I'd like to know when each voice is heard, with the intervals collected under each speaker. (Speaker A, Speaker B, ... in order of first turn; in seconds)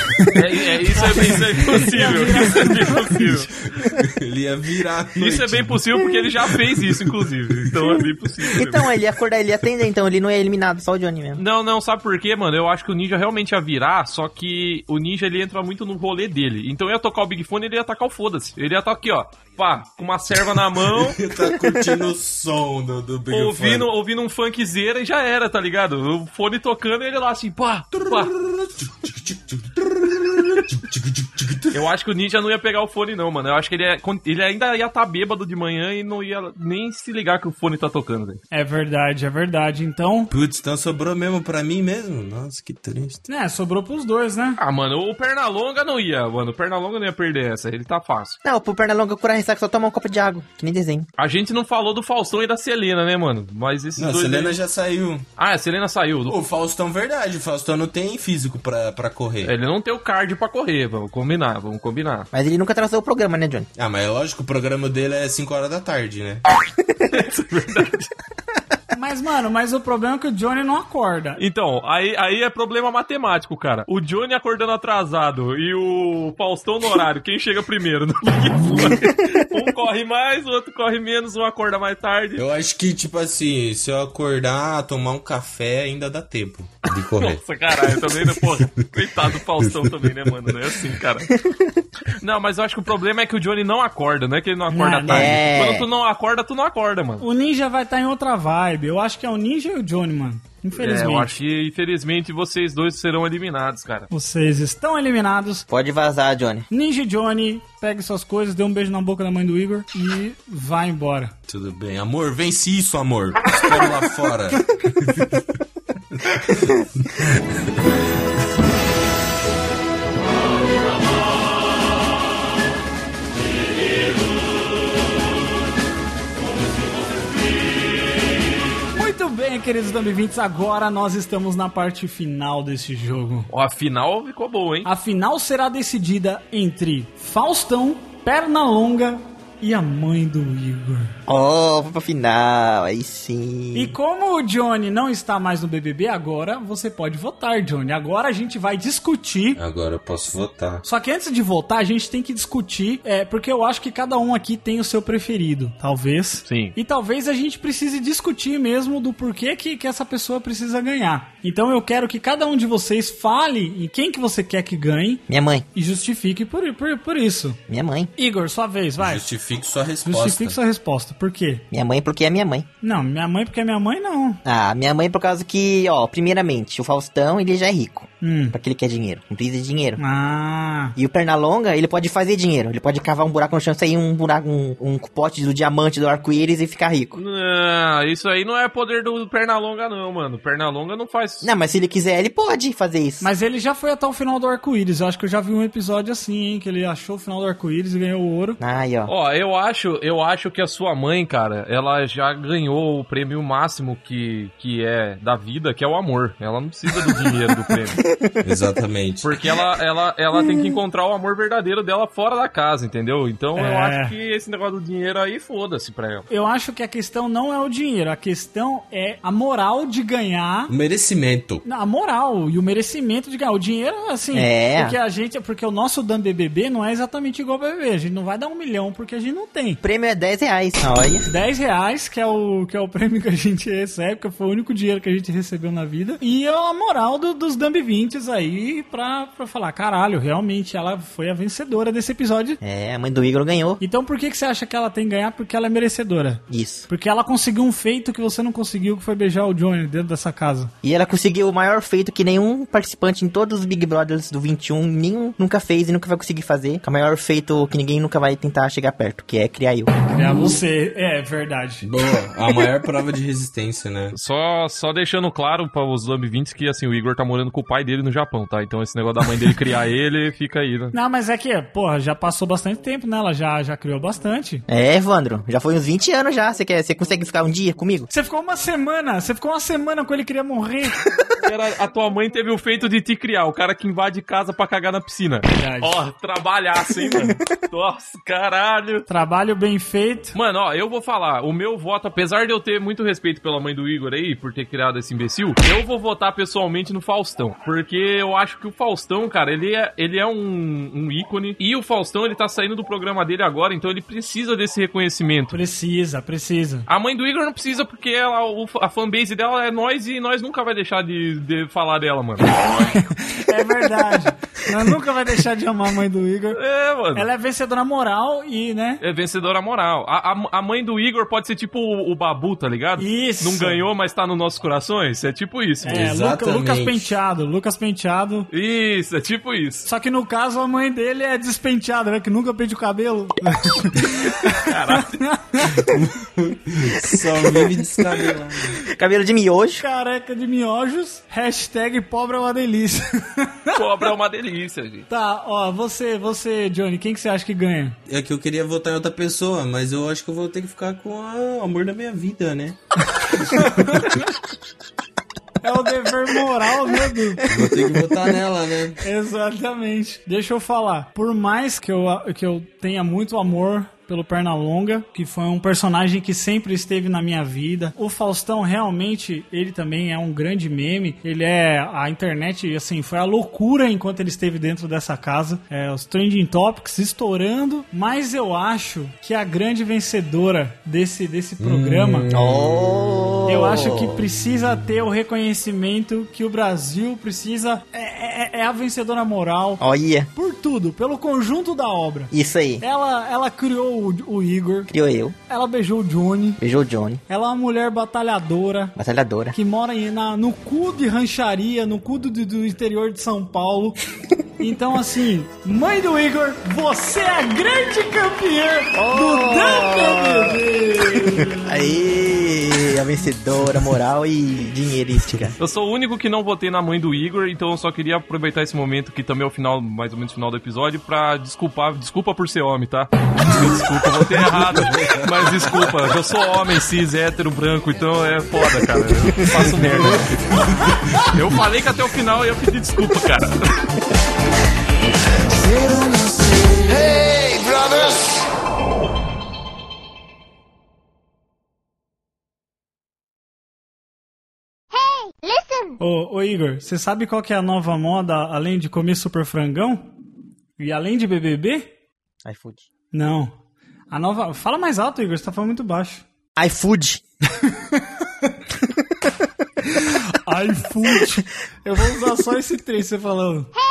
Speaker A: 0.3-3.5, 5.2-8.9, 11.3-21.2, 23.3-28.3, 31.7-38.4, 44.6-48.4, 51.2-54.6, 55.4-56.4, 59.4-62.3, 67.1-68.1, 71.4-82.4, 87.2-91.3, 92.1-97.2, 100.8-104.1, 133.5-134.9, 156.5-156.7, 187.2-191.5, 199.1-208.0, 209.2-216.3, 264.1-270.9, 281.4-289.1, 290.3-305.6, 306.9-312.7, 316.5-317.3, 319.0-326.1, 328.5-329.8, 334.4-335.2, 343.8-345.1, 415.6-433.8
Speaker B: 0.9-3.3, 38.5-40.3, 43.3-44.6, 68.9-71.4, 94.7-95.4, 97.2-101.3, 104.1-105.7, 106.7-111.3, 128.9-133.5, 134.8-141.1, 143.7-149.6, 150.8-165.2, 165.7-167.6, 168.2-169.3, 170.0-171.6, 172.8-174.4, 178.2-178.6, 180.0-180.9, 193.2-198.6, 213.6-214.1, 216.3-220.7, 221.6-229.8, 231.2-242.6, 243.8-250.7, 260.1-261.9, 270.9-274.6, 278.1-281.0, 285.6-286.0, 289.1-290.4, 305.5-306.9, 312.6-316.6, 317.1-319.0, 323.0-323.8, 325.8-328.5, 329.9-335.8, 339.8-343.8, 345.1-348.0, 353.3-354.1, 355.6-357.5, 359.0-382.3, 383.4-389.8, 390.3-394.9, 395.5-396.6, 397.3-398.9, 399.5-404.0, 404.6-412.0, 446.0-450.1, 450.8-451.9, 453.1-453.5, 454.1-456.2, 457.6-458.5, 459.8-463.7
Speaker C: 3.8-5.9, 6.4-7.7, 20.8-23.9, 27.9-31.9, 40.3-43.2, 54.0-55.3, 56.3-59.5, 63.8-66.4, 82.4-87.4, 88.1-90.6, 111.5-115.5, 116.1-118.0, 149.5-150.8, 169.0-170.6, 208.4-209.4, 220.7-221.6, 261.8-264.1, 325.8-327.1, 335.6-338.8, 348.1-352.8, 353.5-354.1, 357.5-359.0, 381.6-383.5, 424.5-426.0, 429.4-429.7
Speaker D: 8.6-11.4, 48.4-51.1, 62.3-63.7, 91.3-91.7, 95.1-95.9, 105.7-106.7, 141.3-143.9, 165.3-165.7, 167.7-168.1, 171.7-172.7, 174.4-180.0, 180.9-187.2, 191.4-193.3, 198.6-199.1, 207.0-207.4, 207.9-208.4, 224.3-225.0, 229.8-231.3, 242.6-243.8, 246.5-246.9, 250.8-259.9, 274.7-278.1, 337.0-337.8, 338.8-339.8, 357.4-357.8, 382.3-384.1, 389.8-390.3, 392.3-392.8, 394.9-395.4, 396.6-397.2, 398.9-399.5, 408.9-410.6, 411.2-415.6, 452.4-452.9, 456.6-457.2
Speaker E: 435.5-438.4